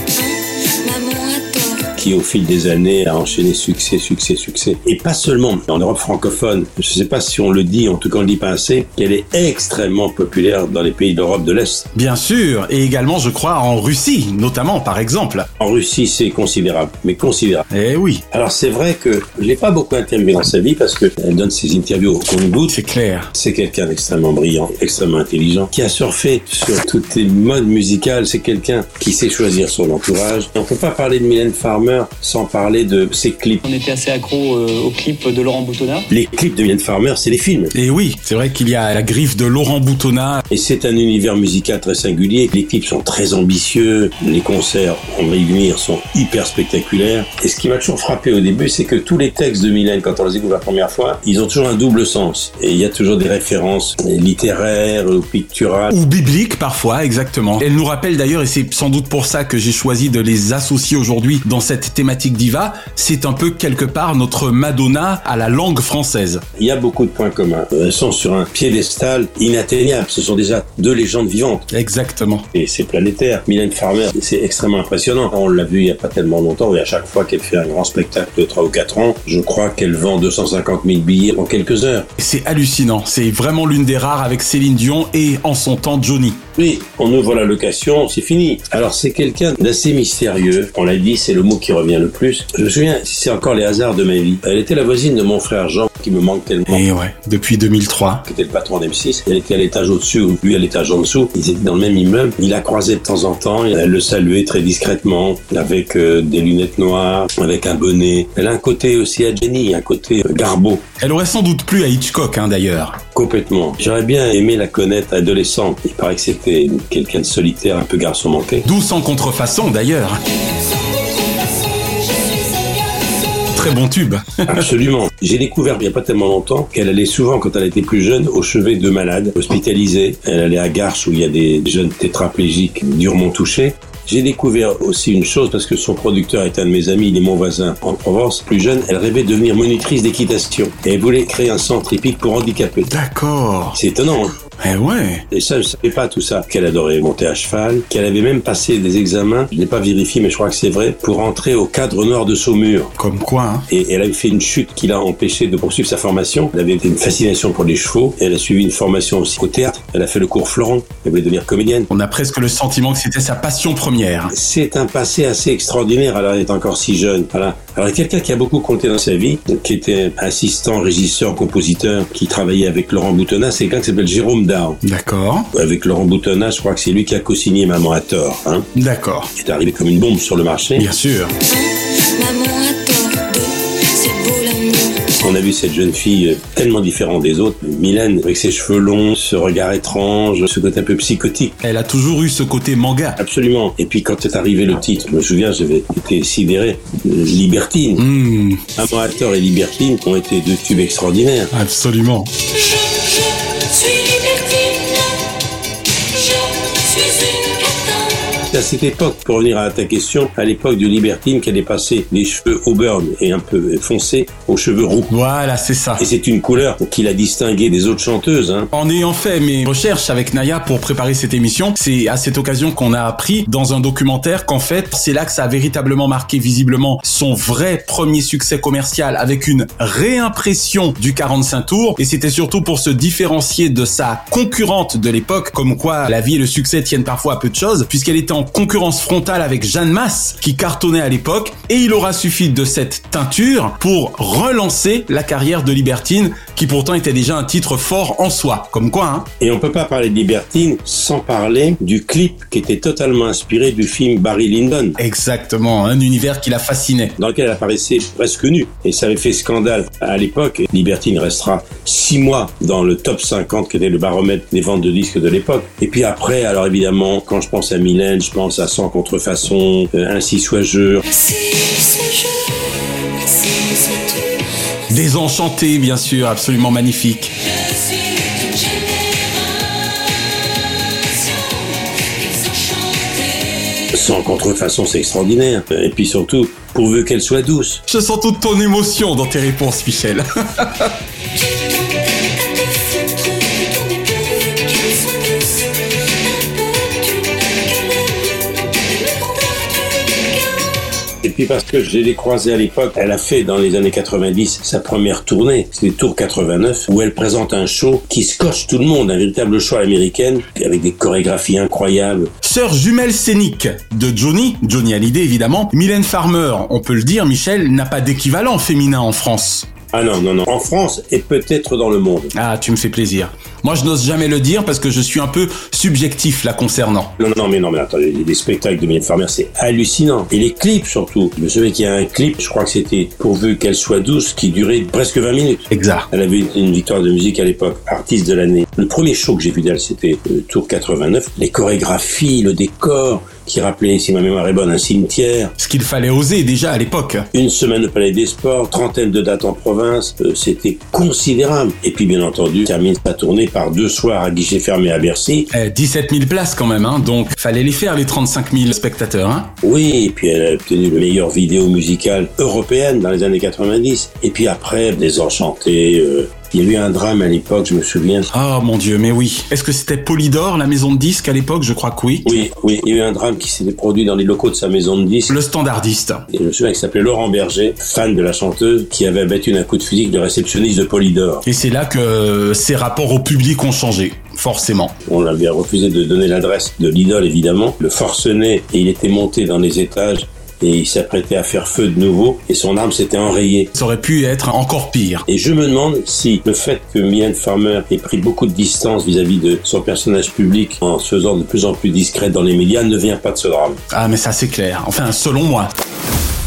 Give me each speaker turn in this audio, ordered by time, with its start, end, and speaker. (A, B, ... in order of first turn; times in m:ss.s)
0:00.2-0:01.9 A
0:02.0-0:11.9 B
0:11.9-0:15.5 C
0:15.6-0:17.7 B
0:17.7-0:18.2 C
0:18.3-0:22.8 B
0:22.7-0:23.3 C
0:23.3-0:33.6 B
0:33.6-0:36.1 D
0:36.1-0:37.7 B
0:37.7-0:40.4 C
0:40.5-0:56.0 B
0:55.9-1:06.4 C
1:06.6-1:11.7 B
1:11.7-1:12.5 C
1:12.5-1:22.1 B
1:22.2-1:26.4 C
1:26.6-1:36.8 B
1:36.7-1:38.3 C
1:38.3-1:50.9 B
1:51.0-1:53.0 C
1:53.2-1:58.7 B
1:58.6-2:00.2 C
2:00.7-2:03.4 A
2:03.5-2:04.6 C
2:04.5-2:22.9 B
2:22.9-2:23.8 C
2:23.8-2:24.4 B
2:24.6-2:25.2 C
2:25.3-2:32.9 B
2:33.0-2:33.7 C
2:33.7-2:41.9 B
2:41.9-2:44.3 C
2:44.3-2:54.8 B
2:54.8-2:55.5 C
2:55.5-2:58.7 B
2:58.8-2:59.3 C
2:59.4-3:00.9 B
3:00.8-3:01.3 C
3:01.5-3:05.2 A
3:05.2-3:11.6 B
3:11.6-3:13.2 C
3:13.2-3:18.0 B
3:18.0-3:18.6 C
3:18.8-3:21.5 B
3:21.5-3:22.3 C
3:22.5-3:25.1 A
3:26.2-3:28.2 A
3:28.5-3:35.1 B
3:35.1-3:36.0 C
3:36.0-3:38.7 B
3:38.7-4:09.3 C
4:09.4-4:15.0 B
4:15.0-4:17.2 C
4:17.2-4:31.0 B
4:31.1-4:32.6 A
4:33.2-4:34.5 A
4:34.9-4:37.3 C
4:37.4-4:43.9 A
4:43.9-4:47.8 B
4:47.9-4:50.9 C
4:51.4-5:00.7 A
5:01.2-5:12.3 B
5:12.4-5:19.7 C
5:19.9-5:22.3 B
5:22.3-5:27.2 C
5:27.2-5:45.5 B
5:35.7-5:36.1 C
5:45.6-5:47.3 C
5:47.3-5:55.5 B
5:55.5-5:59.5 C
5:59.6-6:08.3 B
6:08.3-6:12.3 C
6:12.2-6:15.4 B
6:15.3-6:16.3 C
6:16.3-6:21.4 B
6:21.4-6:25.0 C
6:25.0-6:33.7 B
6:33.7-6:35.2 C
6:35.3-6:43.8 B
6:43.9-6:45.7 C